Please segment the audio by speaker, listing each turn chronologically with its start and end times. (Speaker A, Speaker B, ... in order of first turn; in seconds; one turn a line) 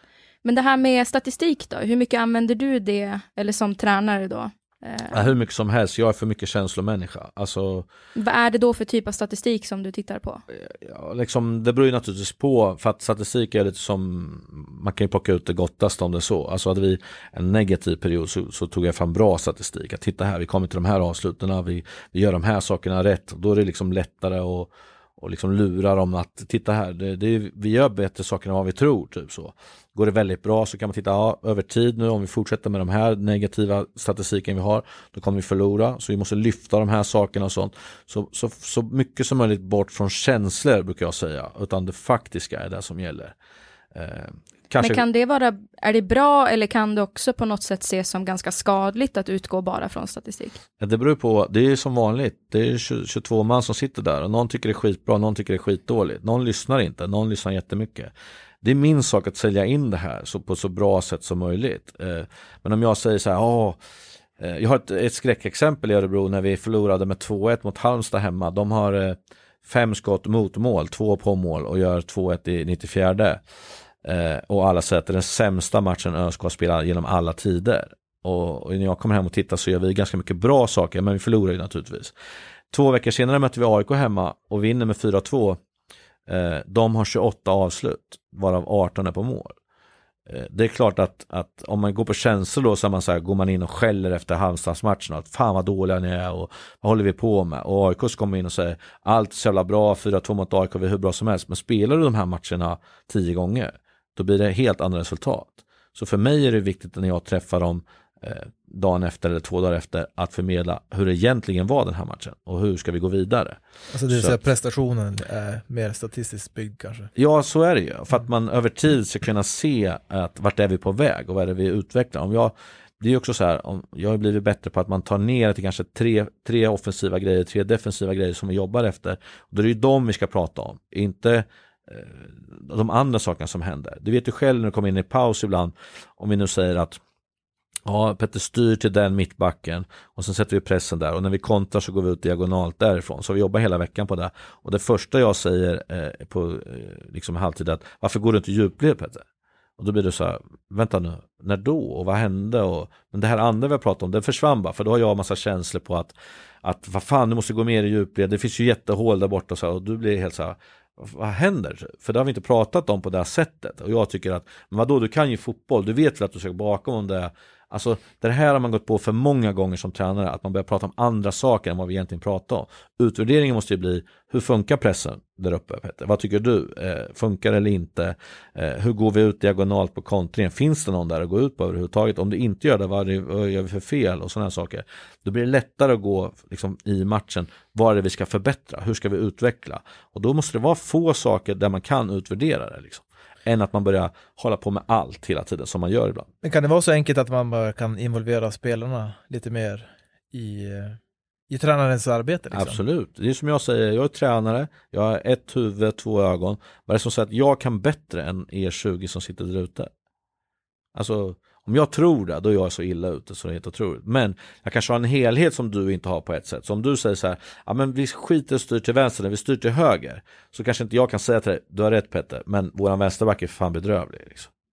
Speaker A: 0.4-5.3
Speaker B: 5.1-7.9
Speaker A: 8.2-10.4
Speaker B: 10.5-43.4
Speaker B: 43.9-45.0
Speaker A: 44.8-50.6
Speaker B: 50.8-63.8
Speaker B: 64.4-73.4
Speaker B: 74.0-82.1
Speaker B: 82.7-85.6
Speaker B: 86.3-89.6
Speaker B: 90.3-114.4
Speaker C: 113.9-117.1
Speaker B: 117.2-137.0
Speaker B: 137.9-149.2
Speaker B: 149.8-196.3
Speaker C: 196.4-201.0
Speaker C: 201.5-202.8
Speaker B: 202.5-209.9
Speaker B: 210.9-224.5